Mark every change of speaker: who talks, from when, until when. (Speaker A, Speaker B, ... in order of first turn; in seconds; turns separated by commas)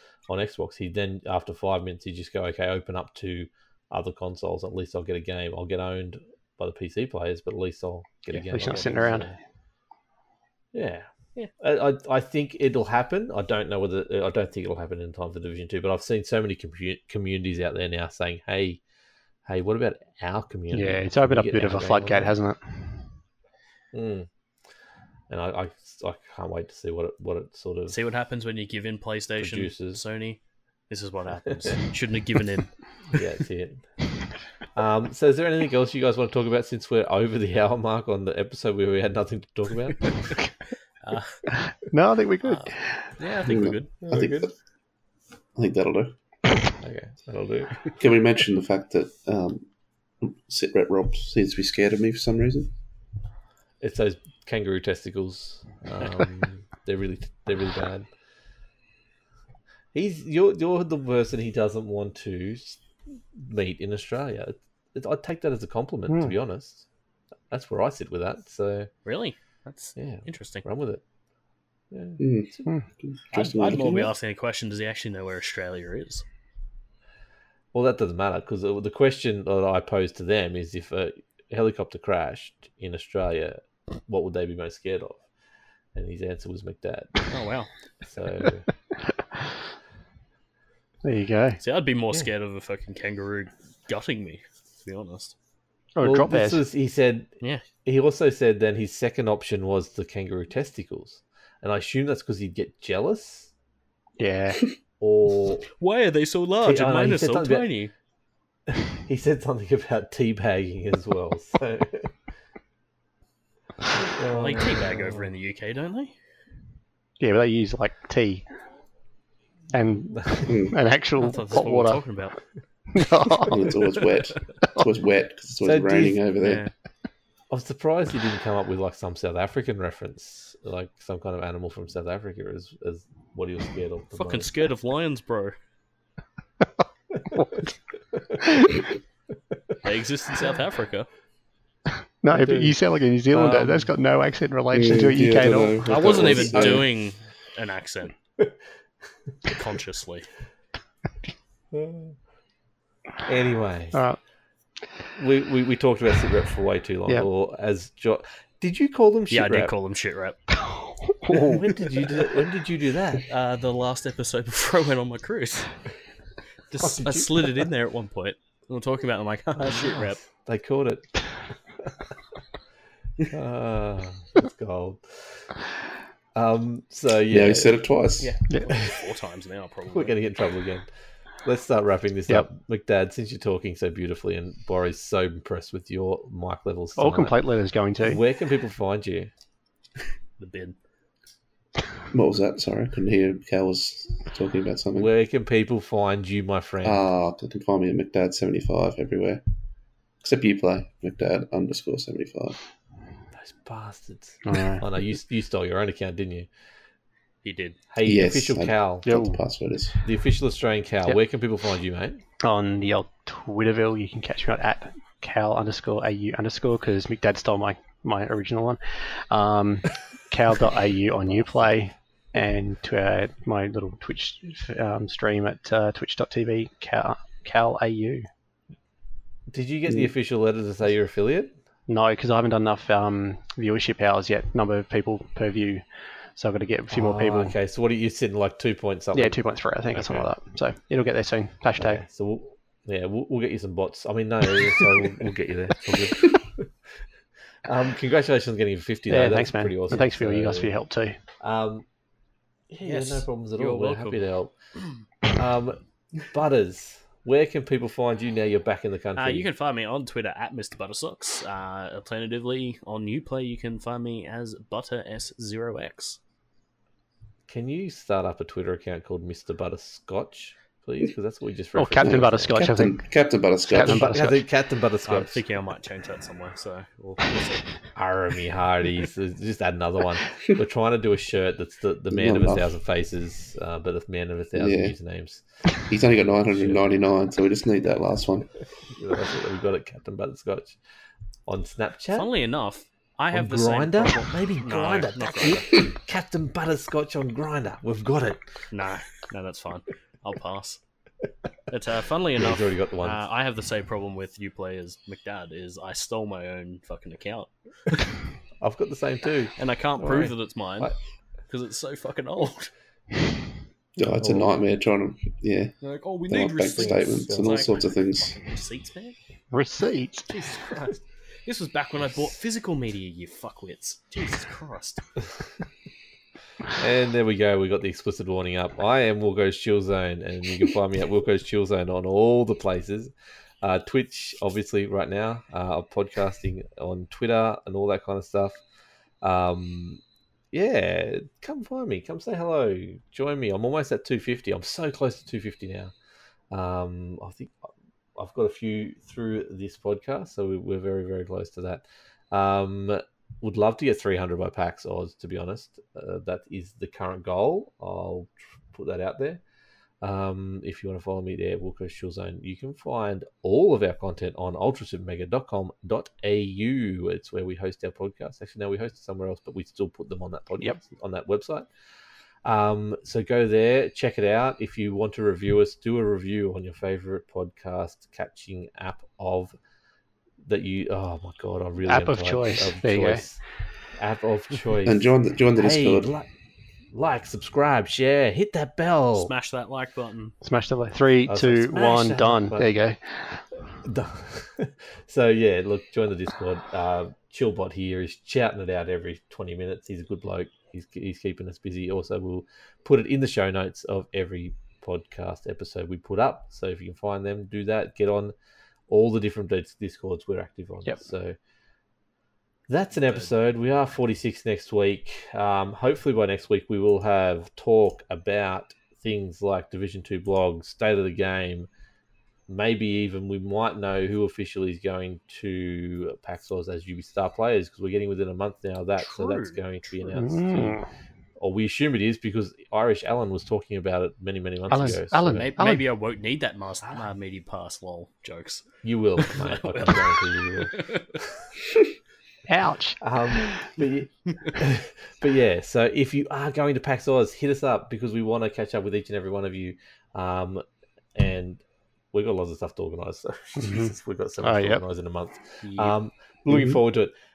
Speaker A: 0.3-9.4, Speaker B: 8.5-9.3, Speaker A: 10.7-18.8, Speaker A: 19.5-22.3, Speaker B: 20.7-23.1, Speaker A: 23.9-24.3, Speaker A: 25.3-28.0, Speaker C: 27.9-33.2, Speaker A: 29.4-30.0, Speaker A: 33.1-33.8, Speaker A: 34.8-40.4, Speaker C: 41.0-41.4, Speaker B: 41.7-43.1, Speaker C: 42.5-43.9, Speaker D: 43.5-44.5, Speaker A: 44.0-44.5, Speaker D: 45.6-46.2, Speaker A: 46.8-47.9, Speaker D: 48.0-49.7, Speaker D: 50.2-52.7, Speaker A: 53.8-58.1, Speaker A: 59.9-62.8, Speaker A: 63.3-66.9, Speaker B: 66.1-66.3, Speaker A: 67.5-68.9, Speaker C: 69.0-70.7, Speaker A: 70.0-71.0, Speaker A: 71.9-72.7, Speaker D: 72.2-74.1, Speaker C: 73.3-76.2, Speaker A: 77.7-85.2, Speaker A: 86.0-87.2, Speaker C: 87.3-87.7, Speaker A: 88.1-88.7, Speaker B: 91.0-91.6, Speaker C: 91.6-95.3, Speaker B: 96.0-96.6, Speaker A: 96.0-97.3, Speaker A: 97.8-103.5, Speaker B: 104.2-104.6, Speaker A: 105.0-105.7, Speaker C: 105.8-107.9, Speaker A: 106.6-107.8, Speaker A: 108.7-112.1, Speaker A: 114.0-115.3, Speaker C: 114.3-116.1, Speaker B: 117.2-118.5, Speaker B: 119.7-122.0, Speaker A: 120.2-120.5, Speaker D: 120.5-120.8, Speaker C: 121.2-122.3, Speaker B: 122.9-123.6, Speaker D: 123.3-126.7, Speaker A: 125.6-126.3, Speaker C: 126.4-126.7, Speaker A: 127.5-134.5, Speaker C: 134.1-135.6, Speaker C: 139.8-141.1, Speaker B: 142.2-146.4, Speaker A: 142.4-142.8, Speaker C: 143.4-143.9, Speaker D: 144.7-146.9, Speaker C: 145.8-148.2, Speaker C: 149.4-150.3, Speaker A: 151.7-152.2, Speaker A: 153.3-154.0, Speaker A: 155.2-159.7, Speaker C: 159.3-160.4, Speaker B: 160.5-161.7, Speaker A: 161.3-163.3, Speaker C: 163.3-165.7, Speaker C: 166.7-170.2, Speaker A: 166.8-167.4, Speaker A: 169.6-171.3, Speaker A: 173.3-175.5, Speaker A: 176.3-177.8, Speaker D: 177.3-178.3, Speaker C: 178.2-180.2, Speaker A: 178.7-178.9, Speaker A: 179.9-180.9, Speaker A: 181.4-187.5, Speaker B: 187.0-188.2, Speaker A: 188.0-189.3, Speaker C: 190.4-190.8, Speaker D: 192.1-195.1, Speaker A: 195.0-197.1, Speaker D: 196.8-199.4, Speaker D: 200.2-202.6, Speaker A: 203.3-206.5, Speaker B: 204.5-204.8, Speaker C: 207.4-207.8, Speaker A: 207.9-209.1, Speaker D: 208.0-210.0, Speaker B: 209.1-209.4, Speaker A: 210.0-212.2, Speaker B: 212.4-228.3, Speaker A: 229.5-231.5, Speaker B: 231.9-235.8, Speaker B: 236.4-237.6, Speaker A: 236.9-239.4, Speaker B: 239.1-242.0, Speaker A: 239.9-240.3, Speaker A: 241.8-246.7, Speaker A: 247.7-250.7, Speaker B: 249.1-251.2, Speaker A: 251.4-251.9, Speaker A: 252.7-254.5, Speaker C: 252.8-254.2, Speaker A: 255.3-259.5, Speaker C: 259.2-266.2, Speaker A: 267.5-272.6, Speaker B: 271.8-273.0, Speaker D: 272.0-274.3, Speaker B: 273.7-274.4, Speaker A: 273.8-275.4, Speaker C: 275.1-277.7, Speaker A: 277.9-285.4, Speaker D: 282.1-282.7, Speaker D: 284.6-284.9, Speaker D: 285.9-288.5, Speaker A: 286.1-286.8, Speaker A: 288.9-290.8, Speaker A: 291.5-292.3, Speaker C: 292.1-295.8, Speaker A: 293.3-298.6, Speaker C: 298.7-300.8, Speaker C: 301.7-307.5, Speaker A: 302.4-303.2, Speaker A: 308.6-311.0, Speaker C: 309.6-310.9, Speaker C: 311.5-312.7, Speaker D: 314.0-315.7, Speaker A: 314.2-314.5, Speaker C: 315.8-319.2, Speaker D: 316.3-318.4, Speaker A: 316.7-317.8, Speaker B: 319.5-320.3, Speaker C: 320.3-325.0, Speaker A: 326.8-338.6, Speaker A: 339.2-340.0, Speaker A: 340.5-345.9, Speaker A: 346.5-359.4, Speaker A: 360.0-371.7, Speaker A: 372.4-379.6, Speaker A: 380.4-383.4, Speaker B: 381.8-383.2, Speaker A: 384.0-386.3, Speaker D: 384.8-386.1, Speaker A: 386.9-389.3, Speaker C: 389.2-390.4, Speaker B: 390.4-393.0, Speaker A: 391.3-392.7, Speaker A: 393.8-408.4, Speaker A: 408.9-411.4, Speaker A: 412.7-421.7, Speaker A: 422.5-430.8, Speaker C: 429.0-429.6, Speaker B: 430.2-430.9, Speaker A: 431.4-435.5, Speaker B: 434.7-435.8, Speaker C: 435.3-438.6, Speaker A: 438.8-441.3, Speaker C: 439.2-441.1, Speaker B: 442.5-443.0, Speaker A: 443.0-450.6, Speaker A: 451.1-457.1, Speaker B: 453.6-454.8, Speaker C: 455.6-455.9